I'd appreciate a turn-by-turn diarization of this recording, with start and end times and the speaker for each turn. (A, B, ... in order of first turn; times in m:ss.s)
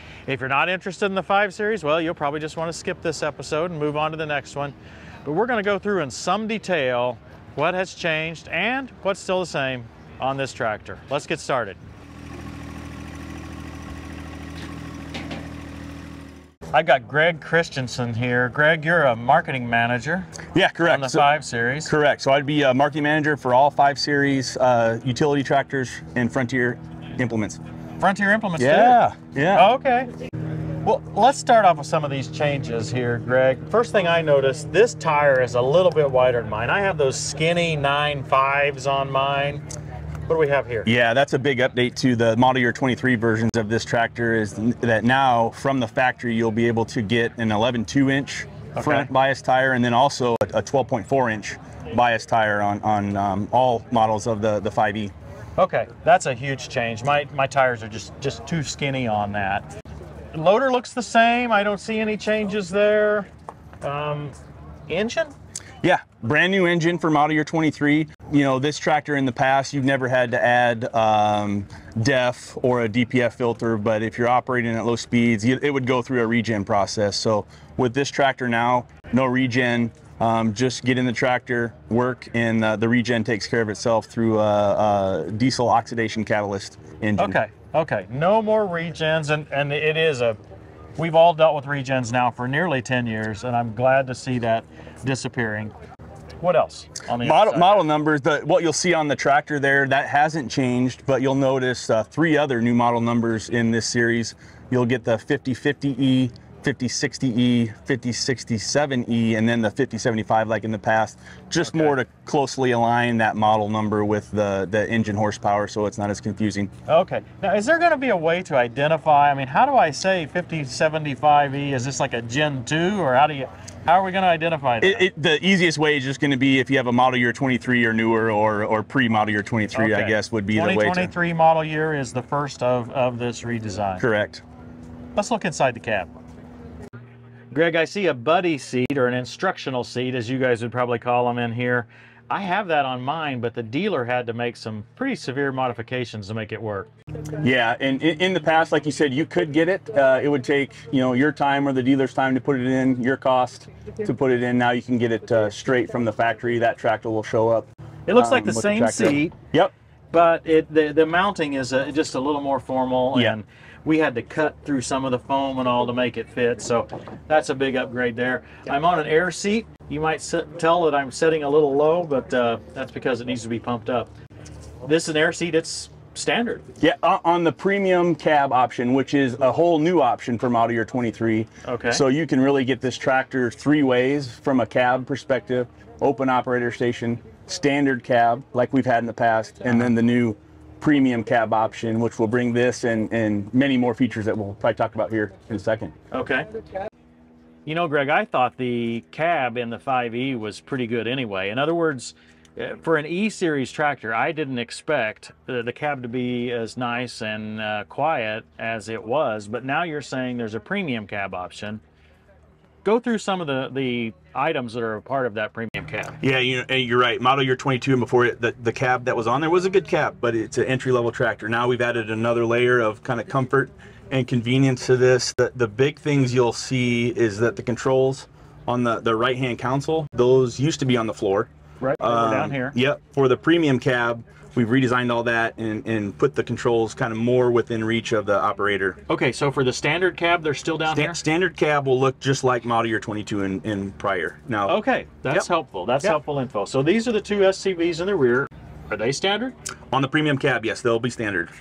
0:00.3-0:11.8 A
0:16.7-0:21.9 A
0:20.5-0:21.3 B
0:21.9-0:27.6 B
0:28.0-0:29.0 A
0:28.6-0:29.7 B
0:29.5-0:30.1 A
0:30.8-0:39.6 A
0:40.3-0:40.9 A
0:40.8-0:55.1 B
0:48.8-0:49.1 A
0:55.6-0:59.7 A
1:00.3-1:03.3 A
1:03.8-1:04.4 A
1:04.9-1:05.3 A
1:05.8-1:27.4 B
1:27.2-1:30.4 A
1:31.0-1:35.7 A
1:36.4-1:37.8 A
1:37.1-1:56.7 B
1:51.6-1:52.0 A
1:56.9-2:05.1 A
2:04.8-2:11.1 B
2:09.7-2:14.0 A
2:14.0-2:14.4 B
2:15.2-2:16.1 A
2:17.5-2:26.9 A
2:27.4-2:39.7 B
2:38.1-2:39.4 A
2:40.1-2:54.1 A
2:54.8-2:56.6 A
2:56.8-3:15.9 B
3:01.6-3:02.0 A
3:09.7-3:09.9 A
3:16.1-3:16.5 A
3:17.7-3:31.8 A
3:32.8-3:36.2 A
3:36.2-3:59.0 B
3:51.8-3:52.8 A
3:59.1-4:01.2 A
4:00.9-4:04.8 B
4:04.7-4:09.6 A
4:09.9-4:11.5 B